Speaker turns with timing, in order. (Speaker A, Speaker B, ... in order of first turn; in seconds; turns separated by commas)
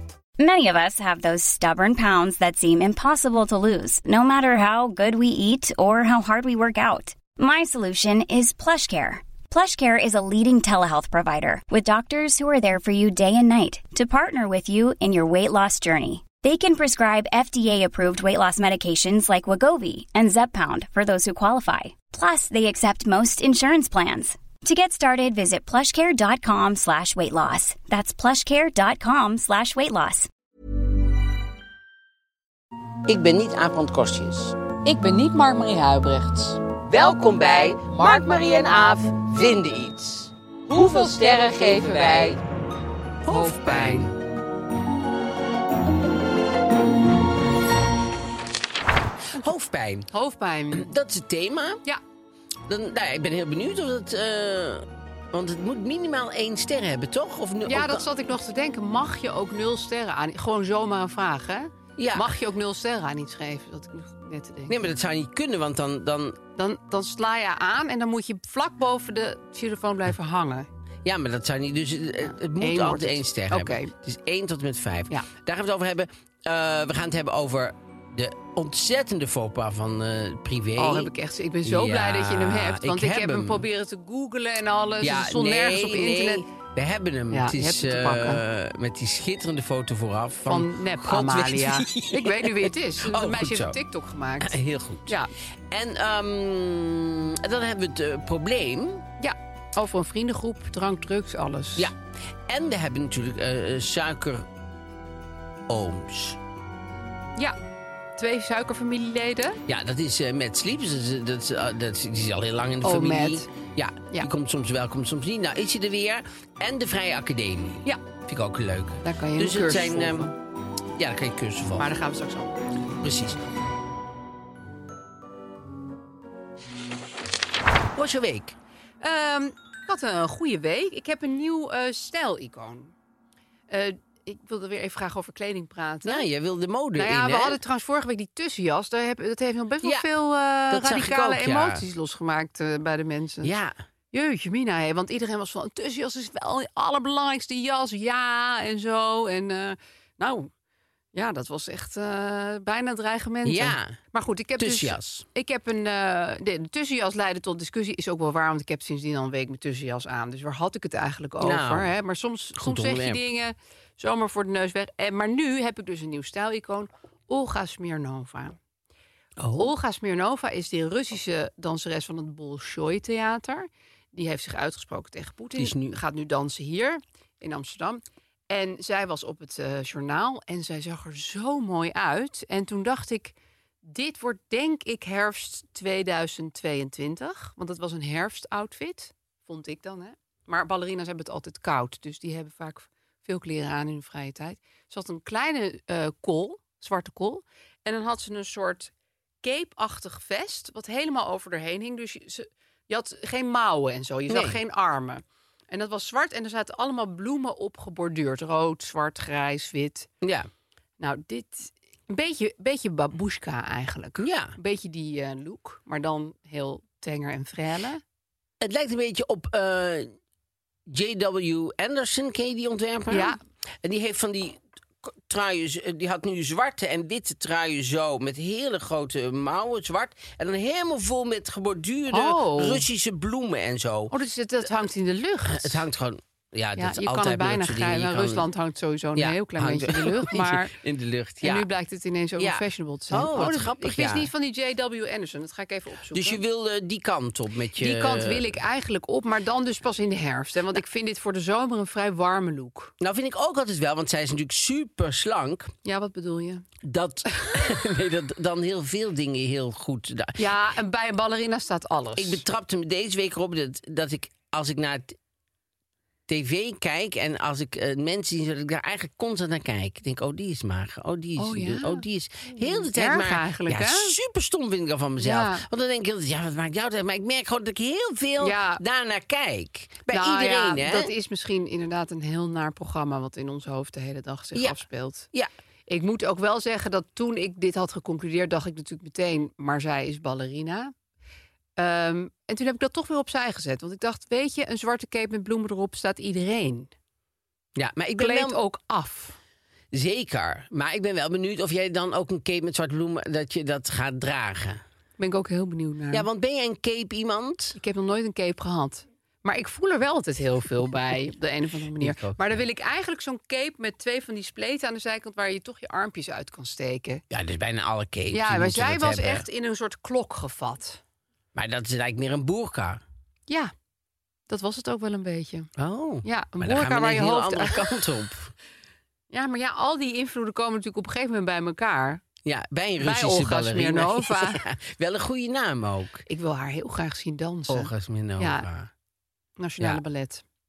Speaker A: 0.4-30.3, Speaker B: 33.0-34.6, Speaker C: 34.8-36.6, Speaker B: 36.7-42.4, Speaker C: 40.7-42.4, Speaker B: 43.2-44.1, Speaker C: 43.3-44.1, Speaker B: 49.4-50.1, Speaker C: 50.1-50.9, Speaker B: 50.7-51.8, Speaker B: 52.7-58.0, Speaker C: 57.6-64.8, Speaker B: 62.0-62.3, Speaker B: 64.7-66.4, Speaker C: 66.5-70.7, Speaker B: 71.0-81.1, Speaker C: 72.2-73.9, Speaker C: 80.8-86.5, Speaker B: 81.6-83.6, Speaker B: 85.0-93.8, Speaker C: 87.3-88.4, Speaker C: 90.5-95.3, Speaker B: 94.4-95.2, Speaker B: 95.7-99.0, Speaker C: 99.2-101.9, Speaker B: 102.5-104.5, Speaker B: 105.7-106.4, Speaker C: 108.2-109.6, Speaker B: 109.7-120.3, Speaker C: 112.8-113.5, Speaker C: 119.0-120.3, Speaker B: 121.0-121.9, Speaker C: 121.8-122.8, Speaker B: 123.0-123.4, Speaker B: 127.9-128.6, Speaker C: 129.0-132.9, Speaker C: 133.7-136.2, Speaker B: 136.0-137.6, Speaker C: 136.9-143.5, Speaker B: 139.8-140.1, Speaker B: 140.7-141.8, Speaker B: 143.4-143.8, Speaker C: 144.1-150.5, Speaker C: 151.1-168.6, Speaker B: 153.4-154.0, Speaker B: 154.6-155.2, Speaker B: 161.4-161.9, Speaker B: 162.6-163.2, Speaker B: 169.4-169.7, Speaker C: 169.6-198.9, Speaker B: 175.6-176.0, Speaker C: 199.4-210.1, Speaker B: 204.3-204.6, Speaker B: 210.2-210.5, Speaker C: 211.0-218.0, Speaker B: 214.2-214.6, Speaker B: 218.6-220.1, Speaker B: 220.9-234.1, Speaker C: 223.1-223.4, Speaker C: 232.1-232.8, Speaker C: 234.1-235.8, Speaker B: 235.5-238.5, Speaker C: 236.8-240.7, Speaker B: 239.2-241.7, Speaker C: 241.4-246.4, Speaker B: 242.4-244.3, Speaker B: 246.1-248.5, Speaker C: 247.8-252.9, Speaker B: 253.0-255.7, Speaker C: 255.8-256.6, Speaker B: 256.8-260.4, Speaker C: 260.4-262.4, Speaker B: 262.1-265.2, Speaker B: 266.3-281.1, Speaker C: 271.4-274.1, Speaker C: 275.2-275.6, Speaker C: 278.4-278.8, Speaker C: 280.1-285.3, Speaker B: 284.5-284.8, Speaker C: 285.9-290.9, Speaker C: 291.8-296.9, Speaker B: 297.8-298.6, Speaker C: 298.1-299.4, Speaker B: 299.9-304.8, Speaker C: 305.2-306.3, Speaker B: 306.1-307.8, Speaker C: 307.8-317.2, Speaker B: 312.0-312.6, Speaker B: 317.3-319.4, Speaker C: 318.3-321.0, Speaker B: 321.5-323.0, Speaker C: 324.5-325.7, Speaker B: 325.8-328.5, Speaker C: 326.2-327.9, Speaker C: 329.3-332.2, Speaker B: 332.4-336.2, Speaker C: 333.0-334.6, Speaker C: 336.3-338.6, Speaker B: 337.7-338.9, Speaker C: 339.6-340.4